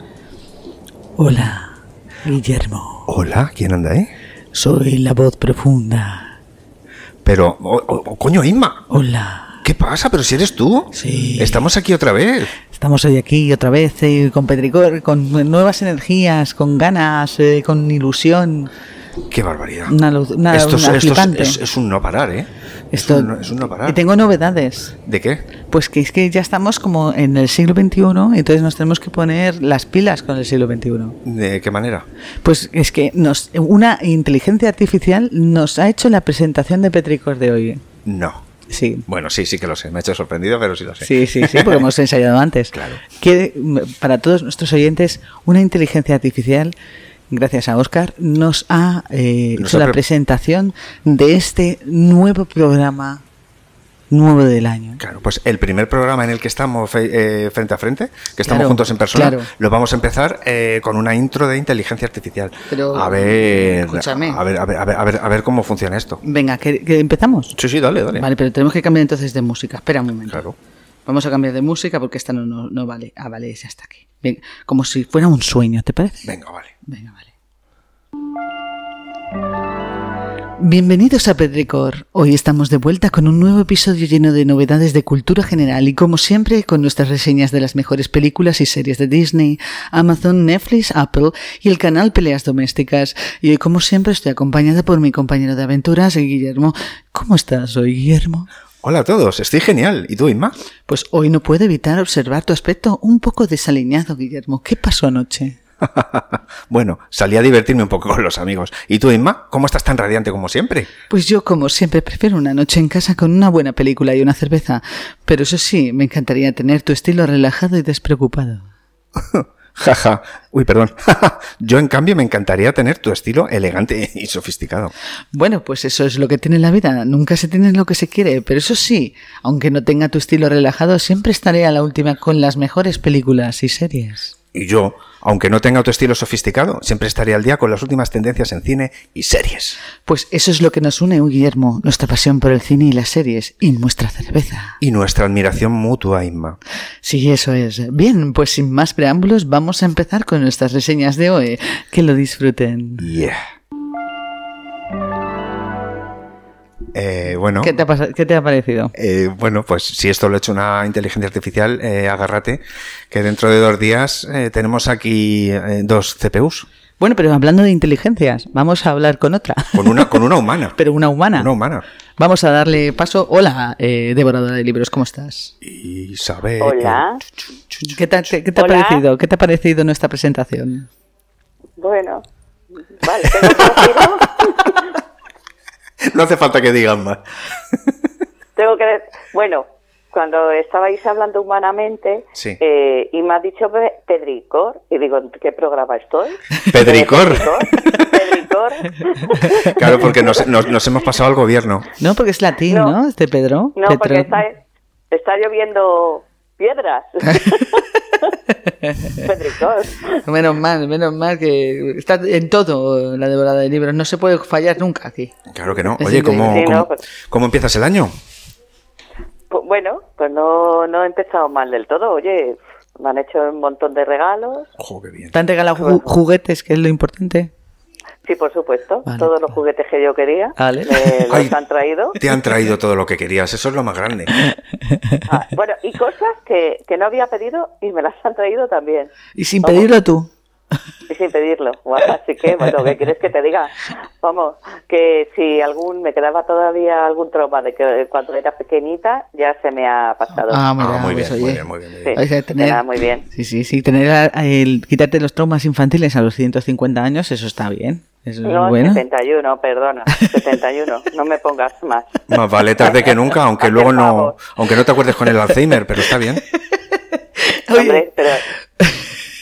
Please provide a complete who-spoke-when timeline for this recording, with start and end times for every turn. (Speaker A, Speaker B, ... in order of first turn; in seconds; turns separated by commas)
Speaker A: 1.2-3.1, Speaker B: 3.1-4.1, Speaker A: 4.5-6.4, Speaker B: 7.2-8.9, Speaker A: 8.9-9.7, Speaker B: 9.6-12.5, Speaker A: 10.9-11.7, Speaker A: 12.7-18.7, Speaker B: 19.3-20.0, Speaker A: 19.9-21.6, Speaker B: 20.5-24.0, Speaker A: 22.9-25.0, Speaker B: 25.0-25.4, Speaker A: 25.7-31.2, Speaker B: 31.2-32.1, Speaker A: 32.4-37.8, Speaker B: 38.0-38.4, Speaker A: 38.7-39.1, Speaker B: 39.1-41.9, Speaker A: 41.0-46.7, Speaker B: 42.7-43.0, Speaker A: 47.3-53.2, Speaker B: 49.6-50.0, Speaker A: 54.1-55.0, Speaker B: 55.0-66.2, Speaker A: 58.5-59.5, Speaker A: 62.7-64.4, Speaker A: 66.2-67.6, Speaker B: 67.6-68.3, Speaker A: 68.2-70.4, Speaker B: 70.3-70.6, Speaker A: 71.1-76.3, Speaker B: 76.2-76.7, Speaker A: 76.9-77.3, Speaker A: 80.6-98.5, Speaker B: 98.8-100.5, Speaker A: 100.9-105.6, Speaker B: 105.8-110.9, Speaker A: 111.1-118.7, Speaker B: 119.2-124.9, Speaker A: 125.3-134.3, Speaker B: 134.5-139.8, Speaker A: 140.1-144.8, Speaker B: 144.8-146.6, Speaker A: 147.0-153.1, Speaker B: 153.0-153.4, Speaker B: 156.9-157.8, Speaker A: 157.6-158.9, Speaker B: 158.9-166.7, Speaker A: 167.0-170.2, Speaker B: 169.7-170.8, Speaker A: 170.8-171.5, Speaker B: 171.3-171.8, Speaker A: 172.2-175.5, Speaker B: 175.6-178.0, Speaker C: 176.6-177.2, Speaker A: 177.9-180.9, Speaker C: 178.6-179.0, Speaker C: 181.8-182.2, Speaker C: 182.9-184.8, Speaker B: 183.6-184.1, Speaker B: 186.0-187.2, Speaker C: 188.6-199.7, Speaker B: 196.7-198.0, Speaker B: 199.7-201.9, Speaker A: 202.0-204.4, Speaker C: 202.7-202.9, Speaker C: 203.8-204.6, Speaker C: 205.1-208.3, Speaker A: 208.7-209.2, Speaker C: 209.2-210.2, Speaker A: 210.2-215.3, Speaker B: 215.5-218.1, Speaker A: 216.0-216.6, Speaker C: 216.5-217.0, Speaker C: 219.5-224.7, Speaker B: 224.8-225.3, Speaker A: 225.3-227.5, Speaker C: 225.8-226.1, Speaker C: 228.3-232.2, Speaker A: 229.1-229.3, Speaker A: 230.6-231.2, Speaker B: 231.3-231.6, Speaker B: 232.2-234.3, Speaker A: 234.9-235.2, Speaker C: 235.3-239.1, Speaker A: 239.4-240.3, Speaker C: 239.6-239.9, Speaker C: 241.1-250.6, Speaker A: 250.5-259.0, Speaker B: 250.8-252.1, Speaker C: 252.0-253.2, Speaker C: 258.4-262.2, Speaker B: 262.3-266.4, Speaker C: 263.6-264.4, Speaker A: 267.2-268.2, Speaker C: 267.8-268.4, Speaker A: 268.8-269.1